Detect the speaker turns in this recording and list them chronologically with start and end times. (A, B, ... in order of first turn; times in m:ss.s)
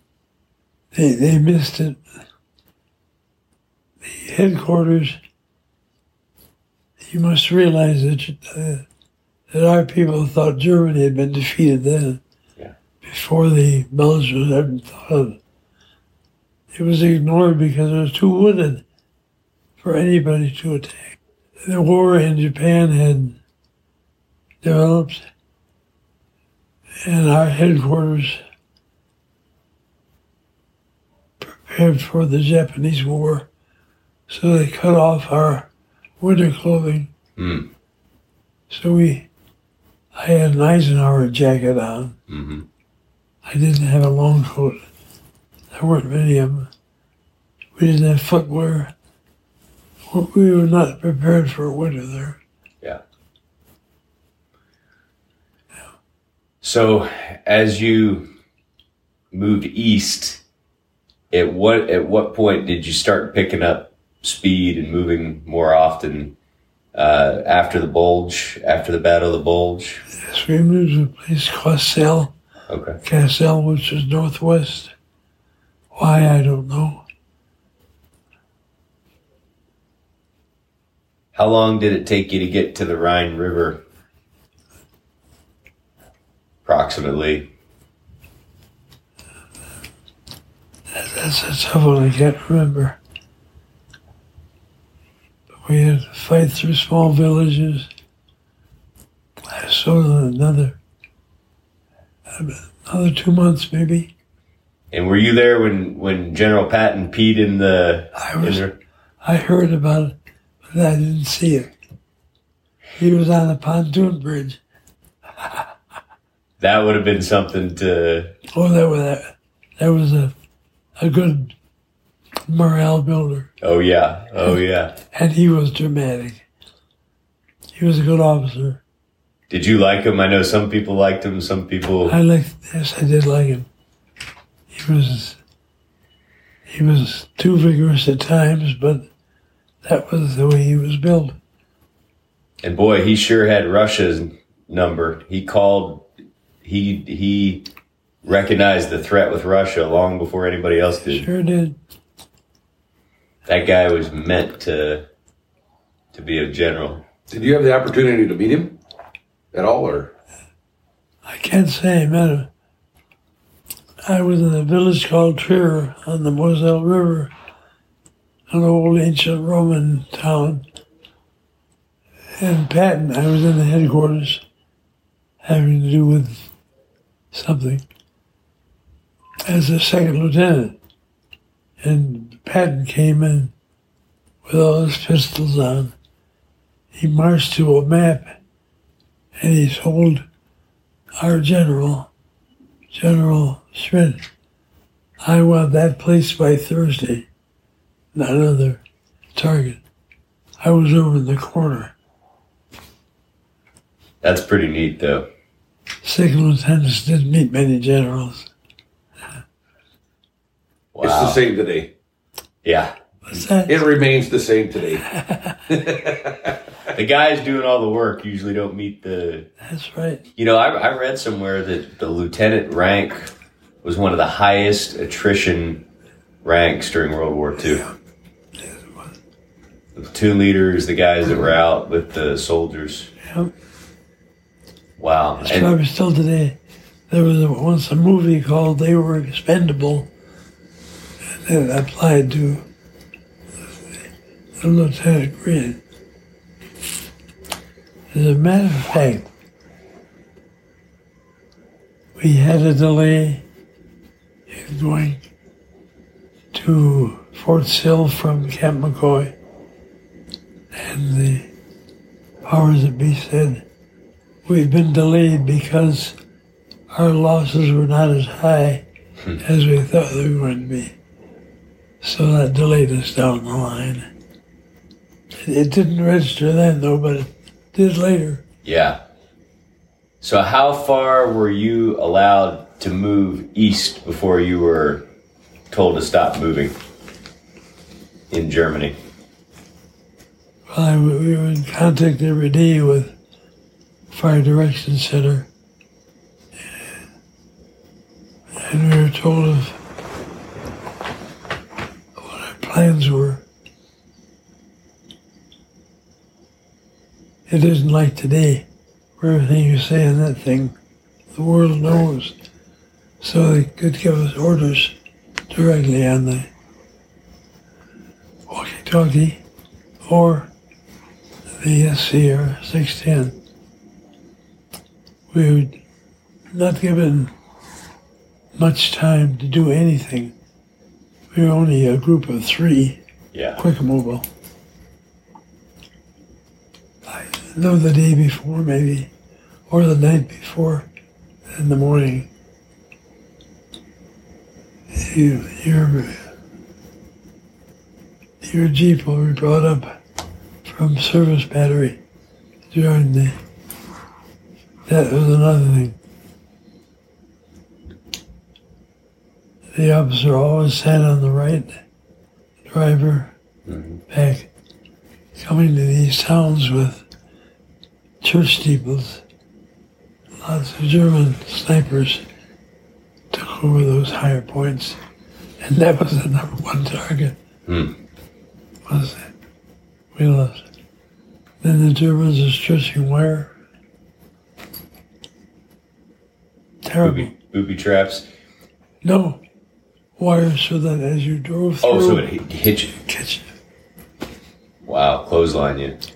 0:00.9-0:02.0 A
0:04.0-0:05.2 A
0:07.0-0:08.8 A
0:09.5-0:12.2 A
0:13.0-0:15.4 A
0:16.7-0:18.8 A
0:19.8-0:23.4 A
0:24.6-0:25.3 A
0:27.0-0:28.4 A
0:31.4-0:33.5 A
0:34.3-0:35.7 A
0:36.2-0:37.1 A
0:37.4-0:37.7 B
0:38.7-0:39.3 A
0:40.1-0:42.2 A
0:42.3-0:42.7 B
0:43.4-0:44.8 A
0:45.7-0:46.7 A
0:47.8-0:48.9 A
0:50.1-0:52.4 A
0:56.6-0:58.3 B
0:59.3-1:00.4 B
1:01.3-1:06.3 B
1:06.9-1:10.0 B
1:10.1-1:12.3 A
1:12.7-1:13.0 B
1:13.0-1:14.9 A
1:15.9-1:17.0 A
1:21.3-1:23.8 B
1:26.6-1:27.5 B
1:30.9-1:33.0 A
1:35.6-1:37.9 A
1:39.4-1:40.8 A
1:42.3-1:44.1 A
1:44.9-1:48.8 B
1:48.2-1:48.6 A
1:49.2-1:51.7 A
1:53.0-1:54.6 A
1:56.6-1:58.3 B
1:58.5-2:00.3 A
2:01.0-2:01.5 A
2:02.5-2:03.5 A
2:03.6-2:05.0 B
2:05.1-2:06.4 A
2:07.8-2:08.8 A
2:09.5-2:12.2 B
2:12.0-2:13.7 A
2:14.7-2:15.4 A
2:16.6-2:19.1 A
2:19.8-2:21.4 A
2:22.6-2:26.1 B
2:26.6-2:27.7 B
2:28.2-2:31.3 B
2:31.1-2:31.8 A
2:33.4-2:35.0 B
2:36.1-2:37.0 B
2:37.3-2:38.8 C
2:39.5-2:40.1 C
2:41.2-2:42.5 A
2:44.0-2:47.3 A
2:48.5-2:50.6 A
2:52.4-2:54.4 A
2:55.4-2:56.5 A
2:57.3-2:57.8 A
2:59.5-3:00.8 A
3:01.8-3:03.5 A
3:04.4-3:05.9 A
3:06.9-3:08.3 A
3:09.4-3:10.2 A
3:11.2-3:12.1 A
3:12.9-3:14.2 A
3:15.2-3:17.3 A
3:18.1-3:18.8 A
3:19.3-3:19.8 A
3:20.6-3:21.9 A
3:24.2-3:25.3 B
3:26.0-3:28.5 A
3:30.9-3:31.4 B
3:31.0-3:31.9 C
3:32.6-3:32.9 B
3:33.2-3:33.8 A
3:33.6-3:35.0 C
3:35.1-3:35.6 A
3:35.7-3:36.6 C
3:36.9-3:39.5 B
3:39.6-3:40.2 A
3:40.4-3:43.3 B
3:43.8-3:45.8 B
3:46.4-3:47.8 B
3:48.6-3:49.1 A
3:49.9-3:53.1 B
3:53.2-3:53.5 A
3:55.0-3:55.7 B
3:55.4-3:56.6 A
3:57.1-4:00.1 A
4:01.3-4:02.6 A
4:04.6-4:05.8 A
4:08.1-4:09.3 A
4:12.2-4:13.4 A
4:14.5-4:15.2 A
4:16.5-4:19.3 A
4:20.7-4:21.5 A
4:22.4-4:23.6 A
4:24.4-4:26.2 A
4:26.9-4:28.8 A
4:29.4-4:30.9 A
4:32.0-4:34.1 A
4:35.4-4:38.4 A
4:38.6-4:39.0 B
4:40.2-4:45.1 B
4:45.7-4:46.7 B
4:48.3-4:49.0 B
4:50.7-4:53.1 A
4:54.1-4:55.5 A
4:58.6-4:59.8 A
5:02.2-5:03.4 A
5:07.5-5:08.6 A
5:09.2-5:10.7 A
5:11.3-5:12.4 A
5:13.2-5:14.9 A
5:15.5-5:16.5 A
5:18.5-5:19.4 A
5:20.0-5:20.5 A
5:21.6-5:23.4 A
5:25.3-5:25.8 A
5:26.5-5:27.3 A
5:28.6-5:30.3 A
5:31.3-5:33.0 A
5:33.3-5:33.6 B
5:33.6-5:34.2 A
5:37.0-5:39.1 A
5:39.7-5:40.9 A
5:41.5-5:42.3 A
5:44.9-5:46.2 A
5:48.4-5:50.0 A
5:50.6-5:52.0 A
5:52.7-5:53.4 A
5:54.9-5:56.0 A
5:59.7-6:01.8 A
6:02.7-6:03.3 A
6:03.7-6:04.0 B
6:04.1-6:04.5 A
6:05.4-6:07.0 A
6:08.2-6:09.2 A
6:10.4-6:12.2 A
6:13.3-6:15.0 A
6:15.6-6:17.4 A
6:17.7-6:18.0 B
6:18.9-6:19.3 A
6:20.1-6:20.6 A
6:21.6-6:23.5 A
6:26.8-6:27.3 A
6:27.0-6:28.2 B
6:29.0-6:29.4 A
6:30.2-6:32.3 A
6:31.8-6:33.0 B
6:33.0-6:33.4 A
6:34.8-6:36.0 B